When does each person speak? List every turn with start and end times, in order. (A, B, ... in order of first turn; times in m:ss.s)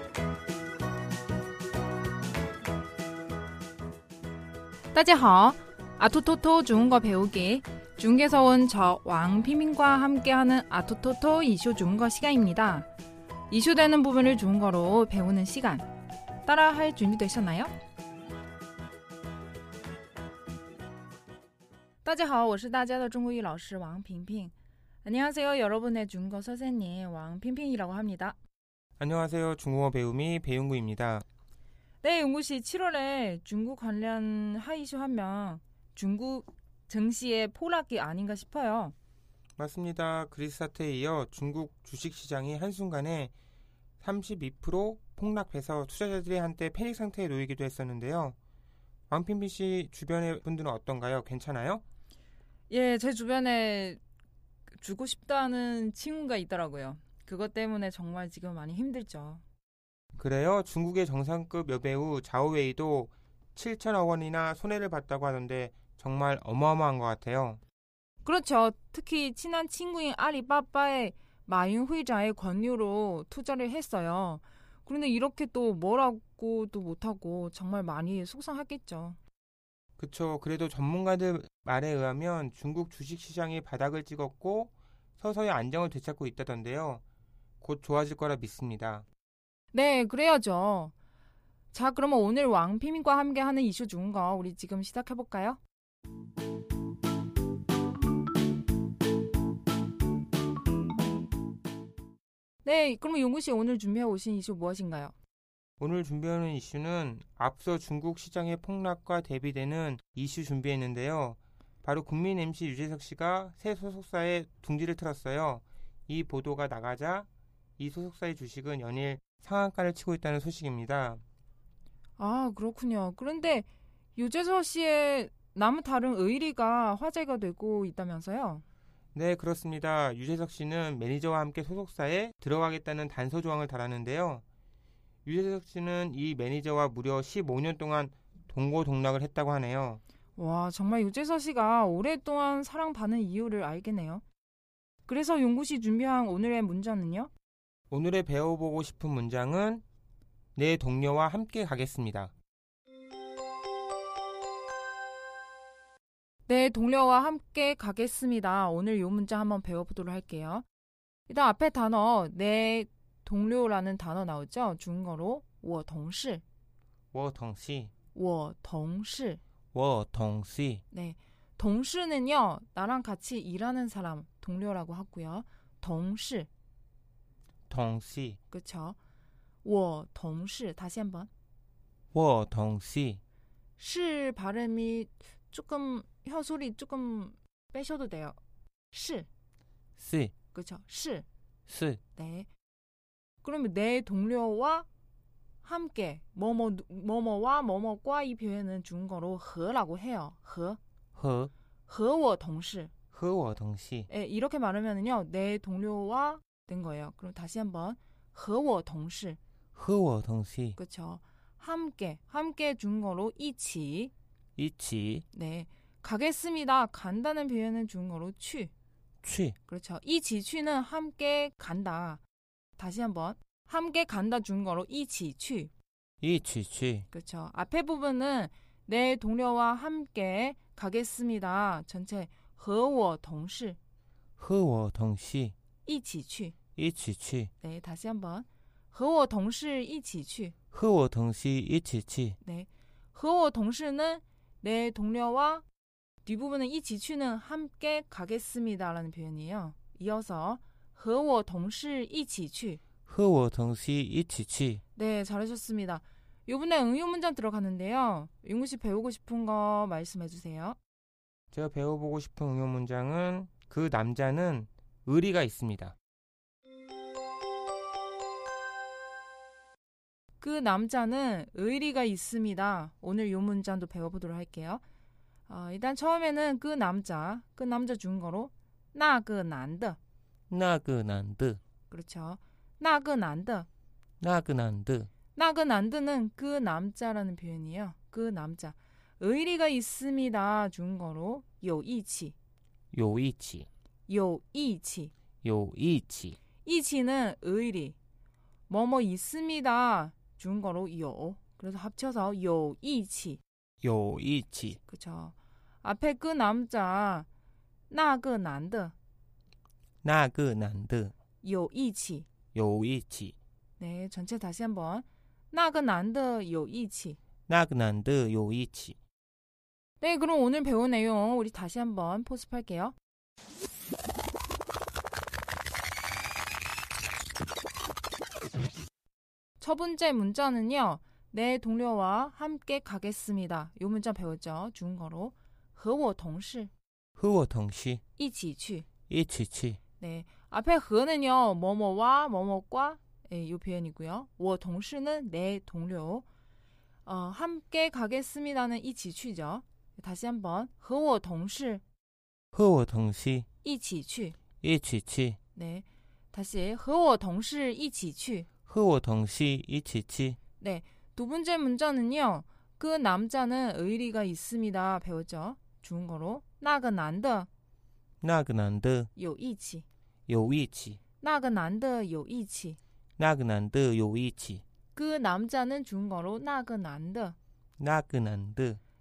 0:04.9-0:12.9 A
0:13.5-0:15.9 A
0:16.4-0:17.7 A
0:22.0-0:24.5 A
0:25.0-0:28.4 A
0:29.0-0:31.2 B
0:32.0-0:38.9 A
0:39.6-0:43.3 B
0:44.0-0:48.4 B
0:49.1-0:51.8 B
0:52.7-0:54.0 A
0:54.7-0:59.4 A
1:00.2-1:07.6 B
1:08.2-1:19.2 A
1:20.0-1:27.0 B
1:27.6-1:29.0 B
1:29.7-1:30.9 A
1:31.7-1:35.6 A
1:42.6-1:45.1 A
1:45.8-1:57.3 B
1:57.8-2:01.2 B
2:02.2-2:08.6 A
2:09.2-2:14.4 B
2:15.2-2:20.0 B
2:20.4-2:24.2 A
2:25.1-2:27.3 A
2:27.9-2:29.8 B
2:30.6-2:32.3 B
2:36.5-2:40.6 A
2:41.3-2:46.4 A
2:47.1-2:47.9 B
2:48.1-2:49.4 A
2:49.7-2:50.8 B
2:50.9-2:56.5 A
2:57.7-2:58.4 B
2:58.5-2:59.0 A
2:59.6-3:01.3 A
3:02.1-3:03.2 B
3:03.8-3:08.4 A
3:08.9-3:09.3 A
3:10.0-3:10.3 B
3:10.5-3:11.2 A
3:11.7-3:12.0 B
3:12.2-3:12.5 A
3:13.4-3:14.9 A
3:15.6-3:20.8 A
3:21.2-3:21.5 B
3:21.9-3:22.9 A
3:23.1-3:24.1 B
3:24.1-3:29.4 A
3:29.8-3:30.8 B
3:30.8-3:34.1 A
3:34.6-3:35.2 B
3:35.3-3:38.7 A
3:39.2-3:39.6 B
3:39.7-3:42.2 A
3:42.8-3:45.7 A
3:46.2-3:47.1 B
3:47.1-3:53.8 A
3:54.4-3:55.5 B
3:55.8-3:56.6 A
3:56.8-3:57.5 B
3:57.6-4:00.5 A
4:00.7-4:02.4 B
4:02.4-4:05.6 A
4:06.2-4:12.8 A
4:13.1-4:14.8 B
4:15.0-4:20.8 A
4:21.5-4:26.0 B
4:30.4-4:34.8 A
4:35.5-4:40.0 A
4:40.5-4:41.6 B
4:41.9-4:43.7 A
4:44.2-4:45.1 B
4:45.4-4:52.4 A
4:52.9-4:53.7 B
4:54.1-4:55.1 A
4:55.4-4:56.4 B
4:56.6-4:58.0 A
4:58.7-5:03.4 A
5:03.8-5:04.8 B
5:04.9-5:07.3 A
5:07.9-5:08.9 A
5:10.0-5:11.1 B
5:11.4-5:12.3 A
5:12.5-5:13.4 B
5:13.8-5:17.2 A
5:17.5-5:19.0 B
5:20.0-5:23.0 A
5:29.6-5:36.7 A
5:37.2-5:38.0 B
5:38.2-5:38.9 A
5:39.1-5:39.8 B
5:40.0-5:46.3 A
5:47.1-5:51.8 A
5:52.5-5:53.5 B
5:53.6-5:54.4 A
5:54.6-5:55.4 B
5:55.6-5:58.5 A
5:58.7-6:00.4 B
6:00.6-6:07.5 A
6:08.2-6:09.1 B
6:09.2-6:09.8 A
6:10.3-6:11.0 B
6:11.2-6:12.8 A
6:13.2-6:14.6 B
6:14.9-6:17.4 A
6:17.8-6:18.8 B